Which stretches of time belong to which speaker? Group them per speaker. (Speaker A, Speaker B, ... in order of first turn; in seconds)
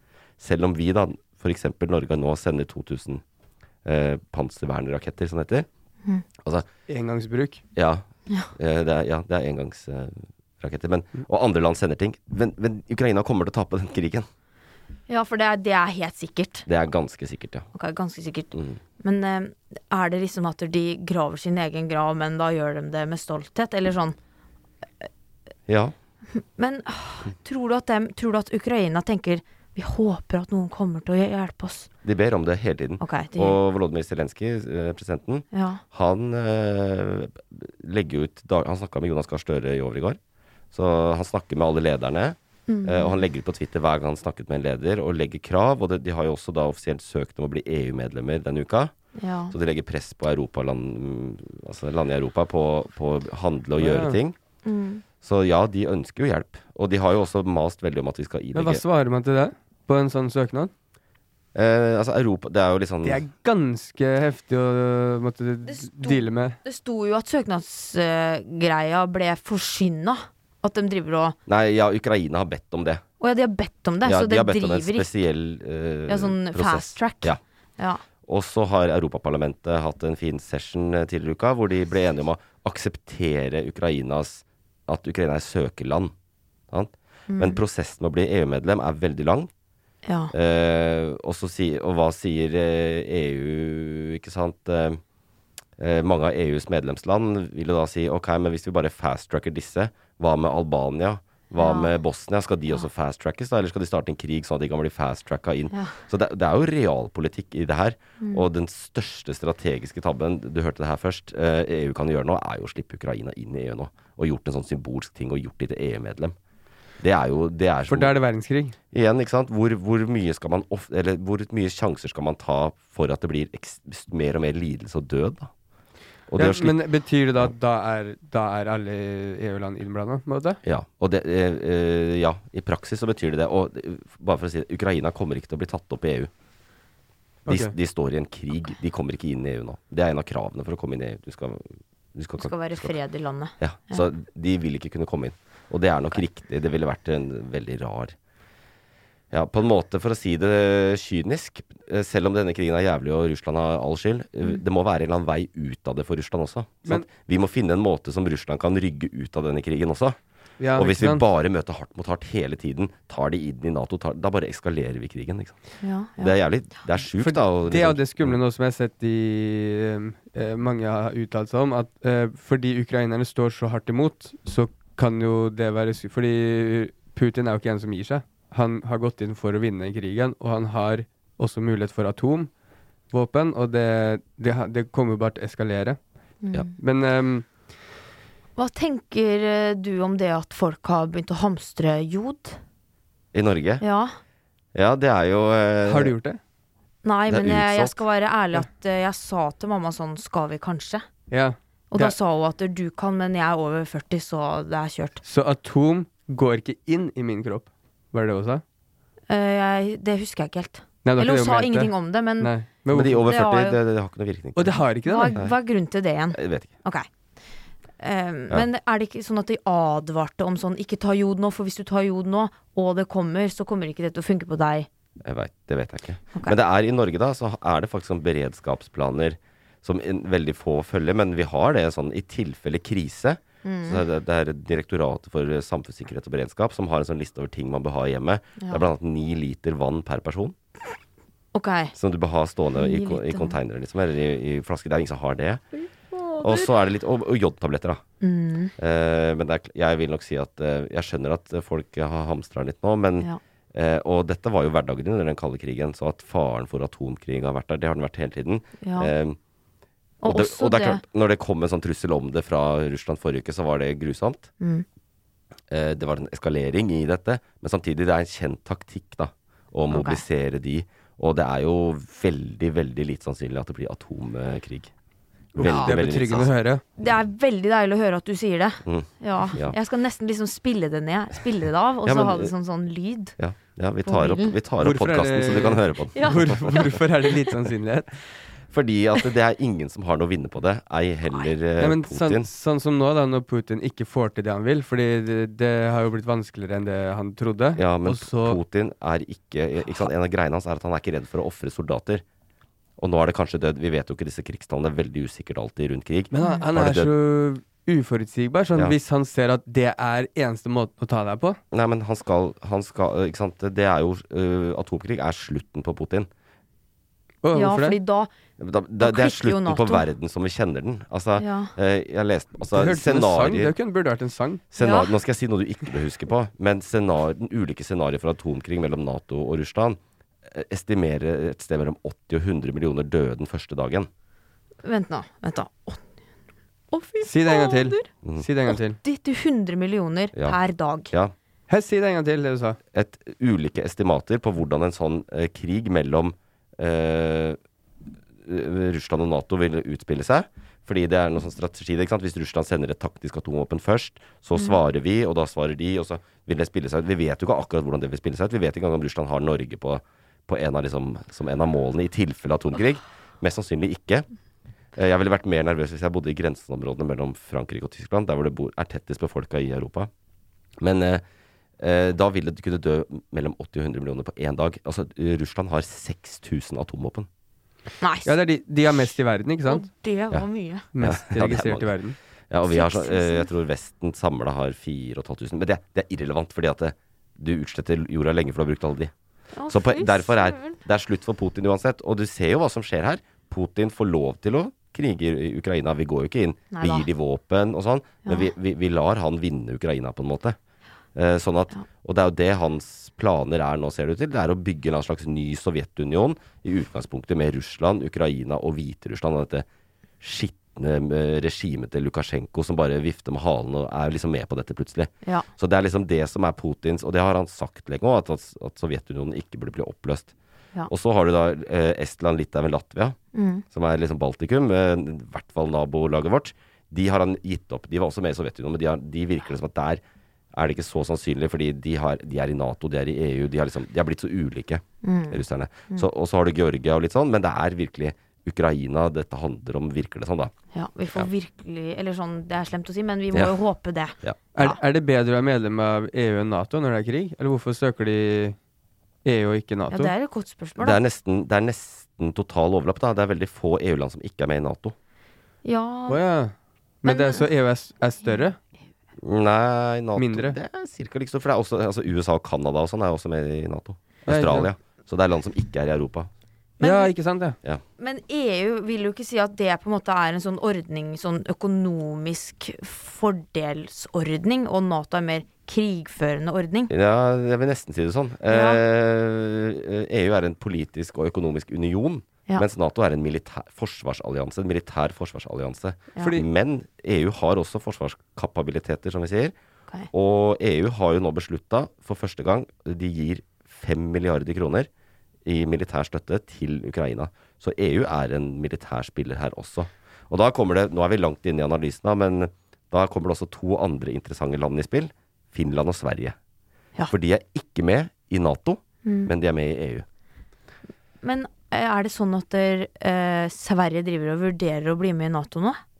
Speaker A: 0.4-3.2, 3.8-5.7, 7.8-14.3, 16.7-17.7, 25.7-25.9, 32.0-40.2, 40.7-48.9, 49.5-54.4, 55.2-58.8, 61.5-63.2, 71.5-73.0, 74.0-77.4, 78.2-86.1, 86.7-89.5, 90.3-95.0, 95.8-116.3, 117.0-118.2, 118.9-125.5, 126.3-126.8, 130.6-136.3, 137.5-142.9, 143.6-148.1, 149.3-160.2, 160.7-165.6, 166.2-168.4, 193.3-193.8, 194.7-196.1, 197.3-198.0, 212.9-215.5, 216.3-216.7, 225.2-240.5, 241.9-245.6, 246.4-248.0, 248.8-259.4, 260.2-264.5, 265.7-274.9, 275.6-276.5, 278.9-279.8, 282.1-282.5, 283.4-287.0, 288.7-292.5, 297.8-302.2, 303.0-307.1, 311.7-316.3, 318.6-323.7, 324.7-330.0, 330.5-334.1, 342.9-347.6, 348.4-364.3, 364.9-370.1, 370.8-371.2, 371.8-377.3, 381.0-381.9, 382.5-389.1, 389.7-400.6, 401.1-409.6, 410.2-420.3, 420.9-423.2, 423.7-430.0, 430.5-440.5, 450.8-454.9, 459.2-466.3, 476.9-489.5, 490.1-494.9, 495.4-506.4, 507.1-510.1
Speaker B: 6.9-7.6, 53.8-54.2, 58.5-60.7, 63.0-66.5, 117.9-118.8, 126.4-130.6, 137.4-137.7, 160.6-161.2, 167.1-182.5, 183.1-186.0, 186.8-187.4, 195.8-196.4, 201.3-202.1, 205.2-208.6, 211.0-213.2, 214.6-215.4, 275.5-276.8, 284.8-288.1, 291.8-298.6, 306.3-311.6, 317.4-318.0, 322.7-324.6, 337.2-339.0, 341.7-342.8, 378.2-379.8, 380.9-382.2, 444.5-448.6, 449.2-450.1, 456.1-458.6, 460.1-460.6, 464.3-464.7, 466.8-467.6, 486.2-486.4
Speaker C: 15.1-16.6, 17.7-24.1, 26.4-31.9, 33.0-33.6, 35.5-35.8, 42.7-43.2, 49.2-49.5, 54.6-55.0, 65.7-71.4, 73.2-75.1, 76.1-78.0, 87.3-87.6, 90.0-90.3, 101.5-101.9, 108.2-108.5, 142.4-144.0, 165.8-166.3, 186.4-186.7, 188.6-192.6, 193.8-194.1, 197.0-201.0, 201.9-205.2, 209.3-212.5, 213.2-213.8, 215.1-217.1, 218.0-224.9, 233.6-234.0, 238.6-238.8, 241.5-241.9, 242.7-243.6, 246.2-246.7, 248.2-248.7, 258.8-259.1, 260.2-261.0, 269.9-270.2, 277.0-283.4, 284.0-284.5, 286.1-287.0, 306.4-306.6, 317.5-318.3, 319.0-320.1, 321.4-321.7, 324.8-325.1, 334.8-336.0, 336.9-338.1, 338.7-341.1, 378.0-378.3, 379.6-380.9, 382.7-383.5, 389.6-390.8, 396.7-397.1, 398.2-398.5, 423.3-423.6, 435.0-436.1, 440.7-444.8, 449.9-451.0, 455.6-456.2, 457.0-457.4, 466.8-467.1, 468.0-476.9, 478.5-478.8, 509.0-509.3, 511.2-515.8